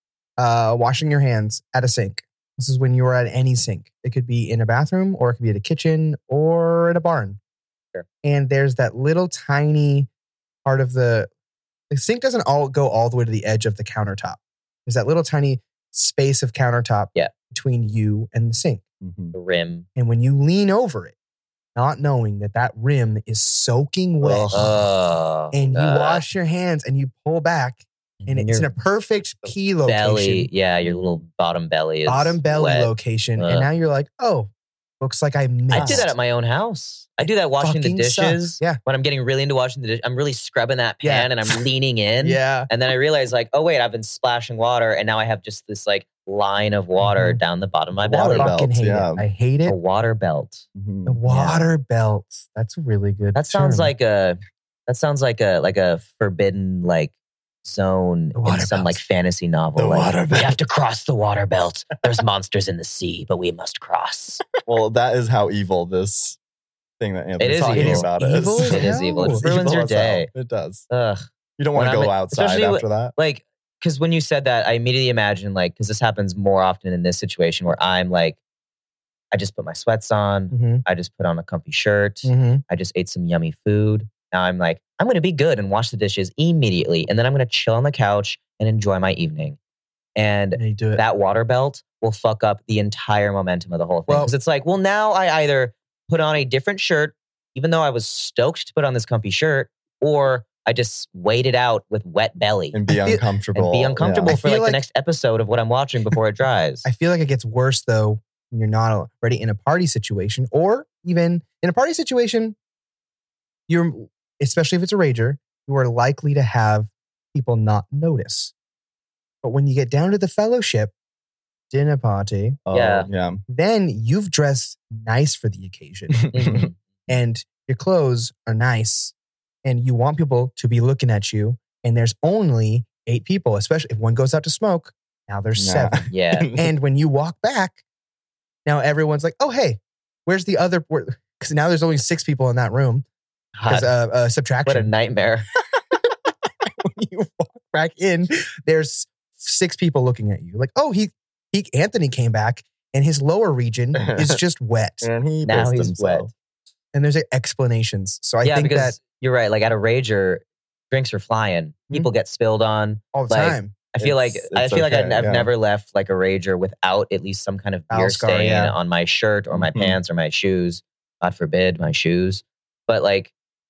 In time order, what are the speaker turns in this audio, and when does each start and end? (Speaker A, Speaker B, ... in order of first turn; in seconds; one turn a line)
Speaker A: 0.4-7.4
Speaker A: 8.2-10.1
Speaker A: 10.6-11.3
Speaker A: 11.9-18.8
Speaker B: 19.0-19.3
Speaker C: 19.3-19.8
Speaker A: 19.9-21.1
Speaker A: 21.7-24.9
Speaker B: 24.2-24.7
Speaker C: 24.5-26.2
Speaker A: 25.5-30.5
Speaker C: 28.2-28.7
Speaker C: 29.8-33.7
Speaker B: 30.8-31.2
Speaker A: 32.0-34.5
Speaker A: 35.0-36.1
Speaker B: 35.7-36.1
Speaker C: 35.7-48.5
Speaker A: 37.6-38.8
Speaker A: 41.0-41.6
Speaker A: 42.2-42.7
Speaker A: 47.0-47.4
Speaker B: 48.0-49.2
Speaker A: 48.3-49.8
Speaker C: 49.6-50.6
Speaker B: 50.8-51.2
Speaker A: 51.0-53.9
Speaker C: 51.3-51.7
Speaker C: 53.3-64.4
Speaker A: 58.4-59.0
Speaker B: 59.8-60.6
Speaker B: 64.6-66.4
Speaker B: 67.0-70.8
Speaker C: 67.4-68.1
Speaker A: 67.7-69.5
Speaker C: 68.6-70.3
Speaker C: 70.9-78.4
Speaker B: 71.6-73.1
Speaker C: 79.3-89.6
Speaker A: 80.5-80.8
Speaker A: 82.2-82.6
Speaker C: 90.2-102.8
Speaker A: 90.5-91.0
Speaker A: 94.1-94.3
Speaker B: 102.7-104.4
Speaker A: 102.9-103.3
Speaker C: 103.5-106.8
Speaker A: 104.2-104.8
Speaker A: 106.8-112.5
Speaker A: 113.7-118.5
Speaker A: 119.4-120.9
Speaker A: 121.7-122.6
Speaker B: 122.7-123.4
Speaker C: 122.7-123.1
Speaker A: 123.5-126.3
Speaker B: 126.2-126.7
Speaker C: 126.3-126.7
Speaker A: 127.1-137.8
Speaker B: 135.6-136.7
Speaker C: 136.1-136.5
Speaker A: 138.7-143.0
Speaker C: 143.6-143.9
Speaker A: 143.7-144.9
Speaker C: 144.6-145.5
Speaker B: 146.8-147.5
Speaker A: 147.7-155.1
Speaker B: 154.0-154.4
Speaker B: 155.0-156.3
Speaker C: 155.4-156.3
Speaker A: 156.9-159.0
Speaker C: 158.4-173.3
Speaker A: 163.1-163.8
Speaker B: 164.0-165.5
Speaker A: 167.9-168.8
Speaker B: 169.5-170.0